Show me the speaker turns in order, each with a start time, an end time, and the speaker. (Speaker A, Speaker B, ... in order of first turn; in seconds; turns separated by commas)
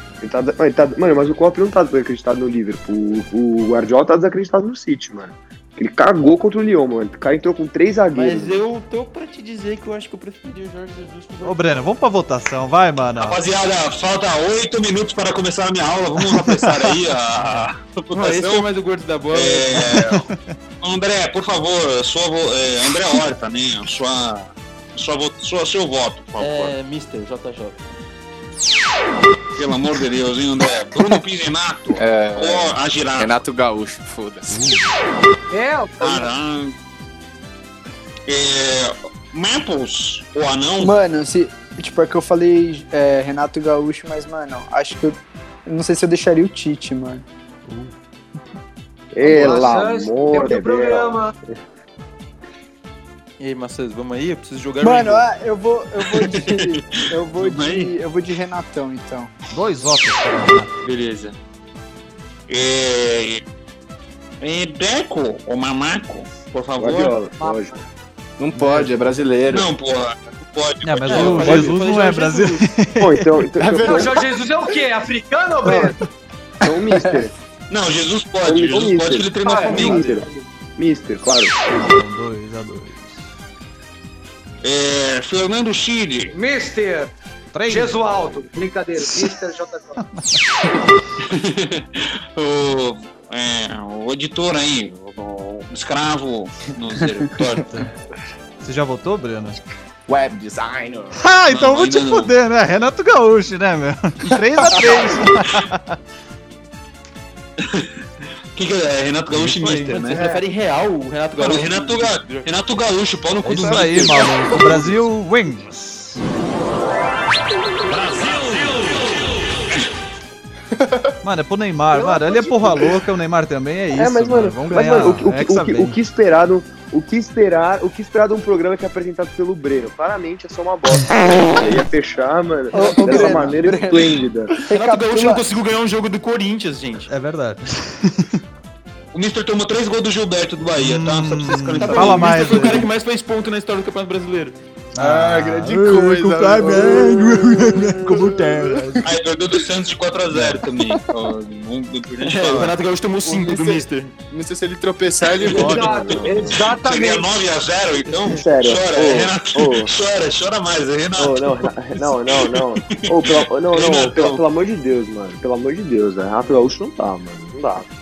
Speaker A: 0.2-8.6, Speaker B: 8.1-11.9, Speaker C: 11.4-13.4, Speaker D: 13.2-18.7, Speaker C: 16.2-17.7, Speaker B: 18.1-20.0, Speaker D: 19.3-20.2, Speaker C: 19.9-20.4, Speaker D: 20.8-26.7, Speaker B: 26.4-27.9, Speaker D: 29.6-33.4, Speaker E: 31.9-34.7, Speaker C: 34.5-34.8, Speaker F: 35.5-36.3, Speaker D: 36.0-36.8, Speaker D: 38.3-41.0, Speaker G: 40.8-47.2, Speaker C: 47.7-48.0, Speaker A: 49.1-51.2, Speaker F: 49.2-51.3, Speaker B: 53.4-55.3, Speaker G: 54.8-59.3, Speaker D: 56.1-57.9, Speaker C: 59.5-60.7, Speaker D: 60.8-61.4, Speaker D: 62.5-63.4, Speaker D: 64.4-67.2, Speaker A: 66.8-67.8, Speaker E: 68.4-69.7, Speaker C: 68.5-68.9, Speaker D: 69.5-71.7, Speaker C: 70.8-73.4, Speaker B: 71.1-72.7, Speaker A: 73.0-74.2, Speaker E: 73.6-74.0, Speaker F: 73.7-76.0, Speaker A: 75.7-76.0, Speaker A: 76.6-77.3, Speaker G: 76.9-77.3, Speaker D: 77.7-80.2, Speaker A: 78.4-81.6, Speaker F: 79.4-80.3, Speaker C: 81.7-83.3, Speaker D: 84.6-86.3, Speaker F: 86.3-87.1, Speaker C: 87.5-88.5, Speaker F: 87.7-90.0, Speaker C: 89.0-89.3, Speaker D: 91.2-97.7, Speaker C: 98.6-99.6, Speaker E: 100.1-101.2, Speaker C: 101.1-106.0, Speaker D: 101.5-102.3, Speaker E: 104.3-105.0, Speaker D: 107.6-107.9, Speaker D: 108.5-110.2, Speaker C: 109.3-110.0, Speaker B: 109.9-112.5, Speaker D: 111.4-114.3, Speaker C: 113.5-116.2, Speaker E: 113.5-115.1, Speaker E: 120.7-121.1, Speaker C: 121.2-126.0, Speaker F: 121.9-123.0, Speaker A: 124.0-134.6, Speaker B: 132.7-133.8, Speaker G: 132.7-135.5, Speaker B: 134.7-137.1, Speaker C: 137.1-138.4, Speaker D: 139.1-142.9, Speaker C: 140.8-142.9, Speaker B: 141.8-144.6, Speaker C: 144.9-149.1, Speaker E: 145.0-149.1, Speaker D: 149.1-152.8, Speaker C: 150.3-150.6, Speaker B: 152.2-154.1, Speaker E: 153.2-156.6, Speaker F: 155.5-157.3, Speaker A: 155.8-156.6, Speaker D: 156.7-164.4, Speaker A: 158.2-159.9, Speaker A: 161.2-167.9